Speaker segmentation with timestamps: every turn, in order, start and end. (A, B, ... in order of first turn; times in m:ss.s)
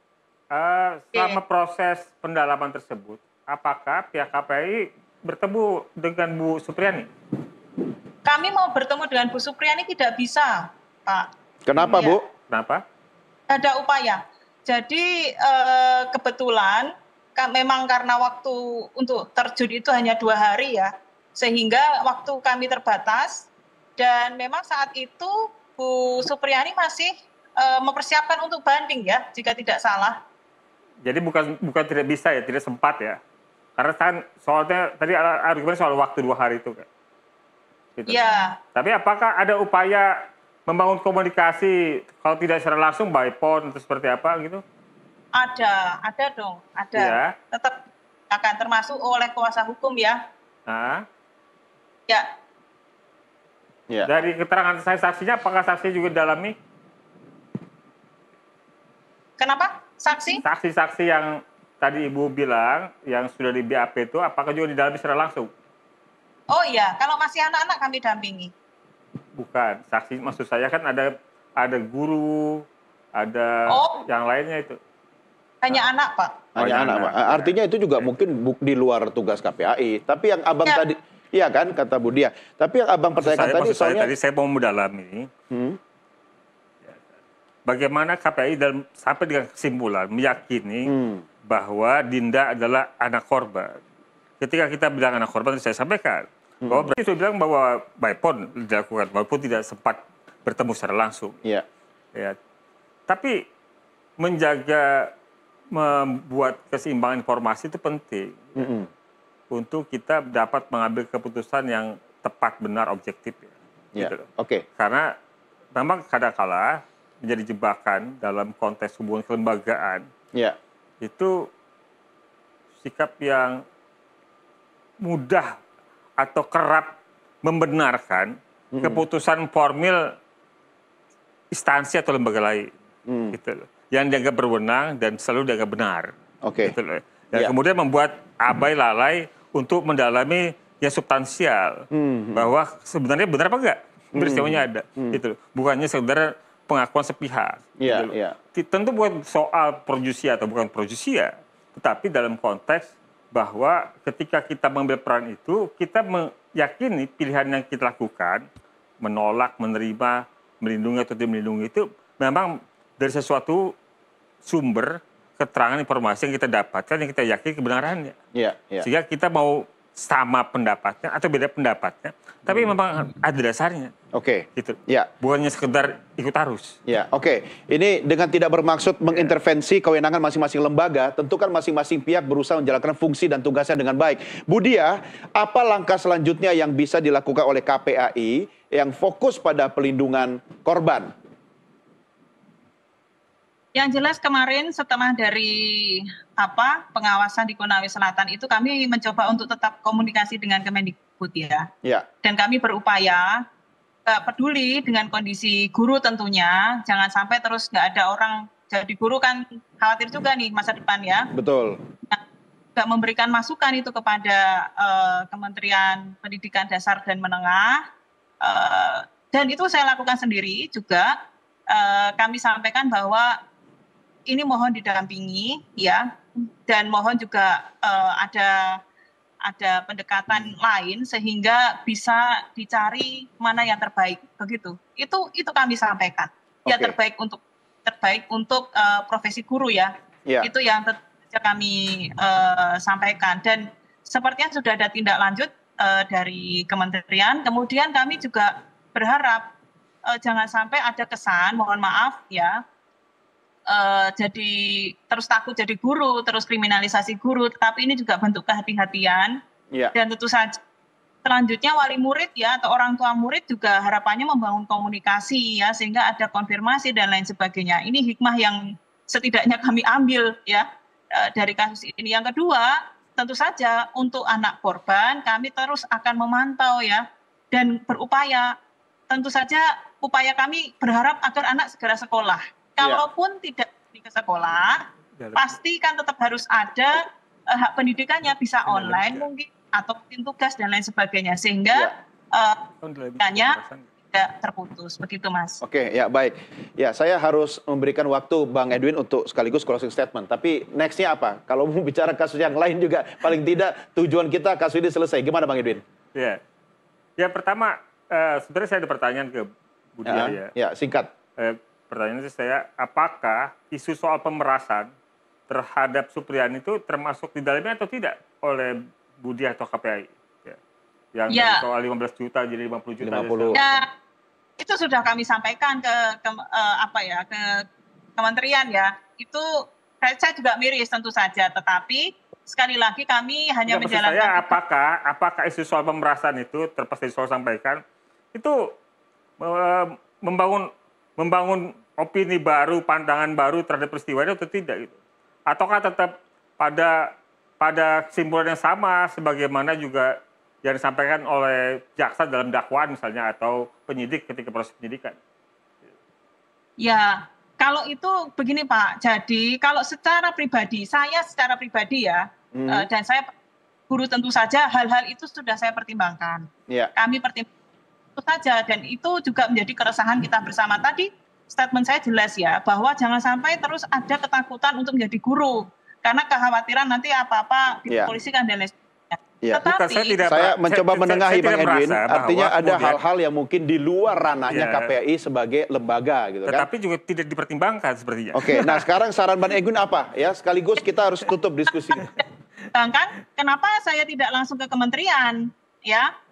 0:00.5-0:07.1 A
0:01.1-0:01.4 B
0:08.2-0:11.3 B
0:11.6-0:12.2 C
0:11.8-0:12.2 B
0:12.5-0:12.8 A
0:13.5-0:30.2 B
0:31.0-0:33.2 A
0:33.8-0:36.9 A
0:38.0-0:40.1 A
0:38.1-0:38.5 B
0:40.7-0:44.6 A
0:45.4-0:47.8 B
0:47.0-0:47.3 A
0:48.3-0:50.2 B
0:50.7-0:51.0 A
0:54.0-0:56.6 A
0:59.4-1:00.4 B
1:00.4-1:01.3 A
1:01.8-1:05.5 A
1:06.5-1:08.5 B
1:09.4-1:12.6 A
1:13.2-1:14.8 A
1:13.7-1:14.0 B
1:15.6-1:16.4 B
1:16.6-1:24.1 C
1:16.6-1:18.1 A
1:23.1-1:25.3 A
1:25.5-1:25.8 C
1:27.6-1:30.9 A
1:30.8-1:31.2 C
1:31.4-1:33.8 A
1:34.4-1:41.4 A
1:36.6-1:36.9 C
1:43.1-1:43.3 A
1:44.2-1:45.1 A
1:45.7-1:48.7 A
1:48.6-1:48.9 C
1:49.5-1:54.2 A
1:54.0-1:54.6 C
1:54.8-1:55.0 A
1:55.7-1:56.7 A
1:57.2-2:00.0 A
2:01.0-2:01.3 A
2:02.8-2:03.6 A
2:05.0-2:05.5 A
2:06.2-2:10.0 A
2:08.7-2:09.0 C
2:11.5-2:12.7 A
2:13.1-2:13.4 C
2:13.3-2:16.1 A
2:16.4-2:16.8 C
2:16.6-2:38.4 A
2:21.9-2:22.5 C
2:24.1-2:25.2 C
2:27.8-2:28.4 C
2:39.0-2:43.7 A
2:44.4-2:48.1 A
2:48.3-2:48.9 C
2:48.8-2:53.9 A
2:54.1-2:55.1 C
2:54.6-2:56.8 A
2:56.9-3:11.1 C
3:13.7-3:21.7 B
3:22.2-3:23.4 B
3:24.0-3:31.3 B
3:31.3-3:31.8 C
3:32.7-3:37.8 B
3:38.4-3:41.1 B
3:41.7-3:43.3 B
3:44.3-3:48.8 B
3:49.4-4:09.5 B
3:56.6-3:57.0 C
4:10.1-4:12.6 B
4:13.7-4:19.3 B
4:19.9-4:20.5 B
4:21.2-4:38.5 B
4:39.1-4:44.8 B
4:45.2-4:45.6 A
4:45.3-4:47.0 B
4:47.5-4:52.6 B
4:48.6-4:49.2 A
4:52.8-4:53.9 A
4:53.2-4:53.6 B
4:54.1-4:55.6 B
4:55.6-5:05.8 C
5:07.2-5:10.5 A
5:10.0-5:11.1 C
5:11.4-5:14.9 A
5:15.5-5:20.6 A
5:21.1-5:23.8 A
5:21.3-5:21.6 B
5:23.0-5:23.6 C
5:23.5-5:23.8 B
5:24.6-5:27.6 B
5:28.2-5:29.4 B
5:30.0-5:34.6 B
5:33.7-5:37.8 A
5:38.3-5:38.6 A
5:39.4-5:40.7 A
5:41.2-5:44.9 A
5:45.5-5:47.0 A
5:47.6-5:50.1 A
5:50.6-5:55.2 A
5:56.8-6:03.3 B
6:02.5-6:02.9 C
6:03.9-6:07.5 B
6:08.2-6:20.2 B
6:19.6-6:23.0 A
6:20.2-6:26.7 C
6:24.5-6:24.9 A
6:26.4-6:28.9 A
6:28.3-6:32.0 C
6:31.9-6:32.2 A
6:32.0-6:32.2 B
6:32.7-6:36.1 B